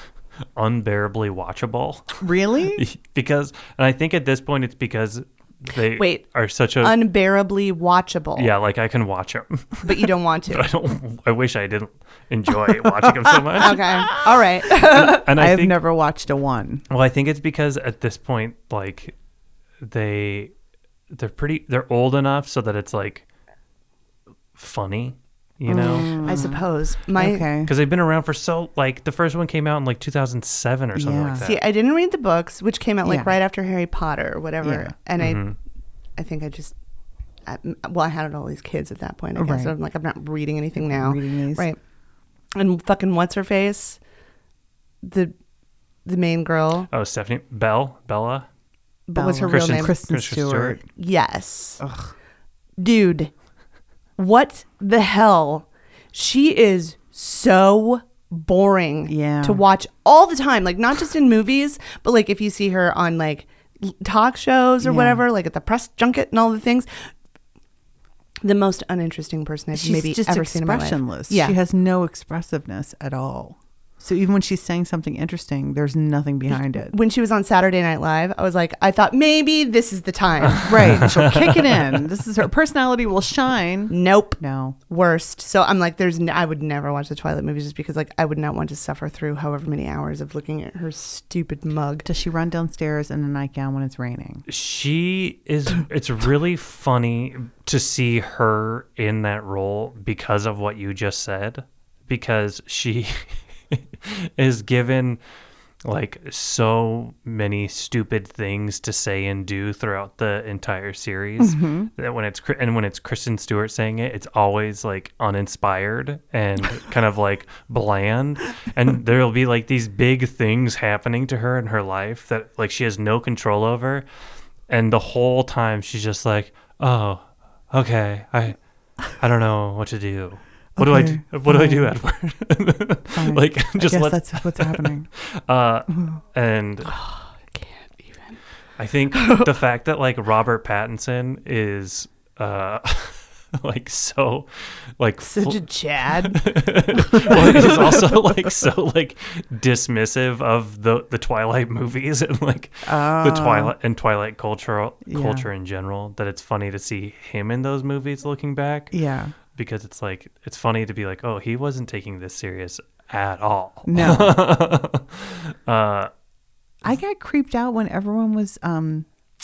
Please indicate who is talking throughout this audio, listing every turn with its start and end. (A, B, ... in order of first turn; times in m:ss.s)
0:00.6-0:02.2 A
0:02.2-0:02.8 B
0:02.7-0:07.0 A
0:06.0-0:06.2 C
0:06.8-0:08.5 C
0:08.4-0:14.2 A
0:09.8-0:10.7 C
0:13.6-0:14.0 B
0:13.6-0:15.3 C
0:14.9-0:15.8 A
0:15.2-0:16.8 B
0:16.9-0:19.1 A
0:19.8-0:20.5 A
0:21.1-0:23.2 A
0:24.6-0:26.3 A
0:25.7-0:26.6 B
0:26.2-0:27.5 C
0:27.2-0:27.7 B
0:27.6-0:31.6 A
0:31.0-0:31.4 B
0:31.4-0:35.4 C
0:33.0-0:33.4 B
0:34.6-0:34.9 B
0:35.2-0:35.6 A
0:36.2-0:36.8 C
0:37.5-0:41.8 C
0:39.4-0:39.7 B
0:40.8-0:41.7 B
0:42.6-0:44.0 C
0:45.0-0:45.3 C
0:46.0-0:46.9 C
0:46.9-0:48.5 A
0:49.1-0:49.9 C
0:49.2-0:50.8 B
0:49.5-0:50.8 A
0:51.0-0:51.8 C
0:51.8-0:52.1 B
0:52.8-0:53.3 C
0:54.2-1:06.9 C
0:59.1-0:59.6 B
1:04.8-1:05.2 B
1:08.4-1:11.6 C
1:09.7-1:16.9 B
1:16.8-1:20.8 C
1:20.5-1:21.8 A
1:20.6-1:24.8 B
1:23.9-1:32.1 C
1:32.0-1:34.4 B
1:34.5-1:45.2 A
1:45.8-2:04.1 A
1:51.4-1:51.9 B
2:04.7-2:17.0 A
2:10.8-2:11.9 B
2:13.1-2:15.1 B
2:16.9-2:18.4 C
2:18.8-2:38.9 A
2:19.2-2:19.5 C
2:25.2-2:26.4 C
2:32.8-2:33.7 B
2:35.1-2:35.5 B
2:38.9-2:39.3 B
2:39.6-2:46.1 A
2:43.9-2:44.4 B
2:46.8-2:49.1 B